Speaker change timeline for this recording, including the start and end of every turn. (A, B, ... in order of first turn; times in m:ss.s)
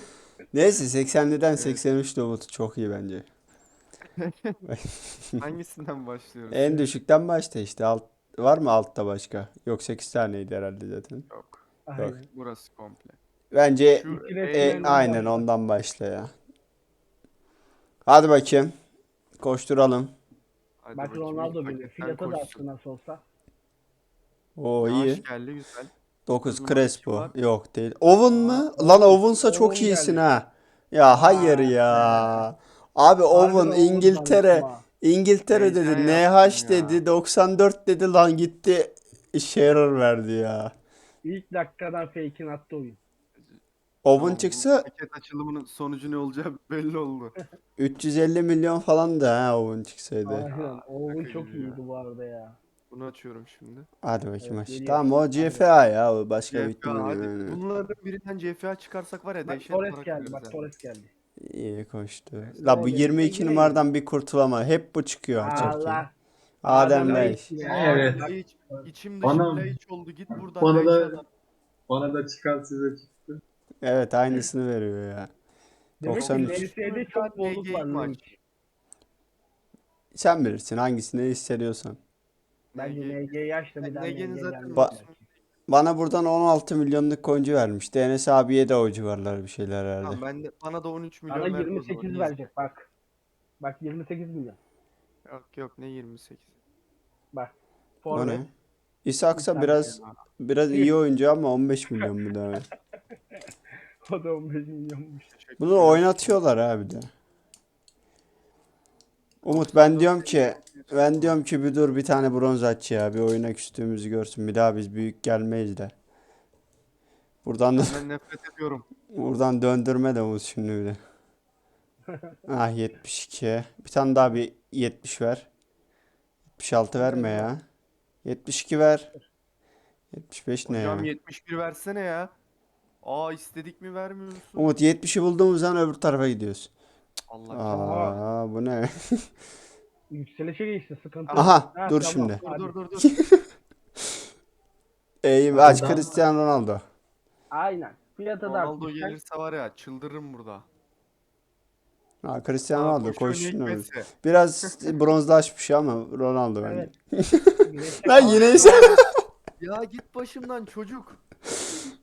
0:00.5-0:03.3 A
0:01.6-0:01.8 B
0:04.2-0:04.6 B
0:04.7-0:05.2 A
0:05.4-0:06.9 B
0:06.5-0:11.2 A
0:11.3-0:11.6 B
0:11.9-0:12.2 C
0:12.3-0:13.2 B
0:13.5-0:16.3 A
0:13.9-0:15.2 B
0:14.1-0:15.4 C
0:18.1-0:18.7 A
0:19.4-0:20.1 A
0:20.8-0:22.6 B
0:21.0-0:23.2 C
0:24.6-0:25.2 A
0:24.8-0:25.9 B
0:26.3-0:40.7 A
0:26.4-0:27.3 B
0:28.3-0:30.2 C
0:31.1-0:32.4 C
0:33.3-0:34.8 C
0:35.5-0:37.0 B
0:41.2-0:43.0 C
0:44.0-0:44.9 A
0:44.1-0:47.4 B
0:47.8-0:50.5 A
0:50.2-0:52.6 C
0:50.5-0:51.8 B
0:52.9-0:53.9 B
0:54.0-0:57.6 A
0:54.4-0:55.6 C
0:56.5-1:00.6 B
0:59.4-1:01.1 C
1:01.4-1:06.0 A
1:02.5-1:03.8 C
1:05.4-1:06.1 C
1:06.6-1:07.5 A
1:06.6-1:08.3 C
1:06.9-1:11.3 B
1:07.6-1:08.3 D
1:09.2-1:09.8 D
1:10.3-1:11.2 D
1:11.9-1:13.4 D
1:13.8-1:15.3 A
1:16.0-1:18.4 C
1:16.0-1:16.7 A
1:16.1-1:18.3 B
1:20.2-1:22.0 A
1:22.7-1:23.2 B
1:22.8-1:25.2 C
1:23.8-1:25.3 B
1:25.7-1:30.2 A
1:30.0-1:32.4 B
1:31.3-1:32.9 C
1:33.6-1:34.6 C
1:35.3-1:36.6 B
1:37.3-1:38.4 C
1:38.1-1:38.5 A
1:39.0-1:42.7 A
1:39.4-1:39.8 C
1:39.8-1:40.2 B
1:44.1-1:45.3 C
1:45.3-1:46.4 B
1:45.6-1:47.1 A
1:49.4-1:55.9 A
1:49.5-1:51.4 B
1:57.4-1:58.0 A
1:57.8-1:58.9 B
1:59.1-2:01.0 A
2:02.5-2:05.5 A
2:06.6-2:07.6 A
2:07.0-2:07.4 C
2:08.2-2:09.1 A
2:10.1-2:11.1 A
2:10.6-2:12.3 B
2:13.0-2:14.7 B
2:14.6-2:16.7 A
2:17.3-2:17.8 B
2:17.5-2:19.2 A
2:17.7-2:18.2 C
2:20.1-2:22.7 C
2:21.3-2:21.6 B
2:21.3-2:22.4 A
2:22.4-2:23.1 B
2:25.2-2:26.8 A
2:25.5-2:26.0 D
2:27.5-2:29.2 C
2:28.4-2:30.7 B
2:32.2-2:37.5 A
2:32.7-2:34.1 B
2:36.6-2:36.9 C
2:37.6-2:39.0 C
2:38.0-2:39.1 A
2:38.2-2:39.0 B
2:39.6-2:41.2 B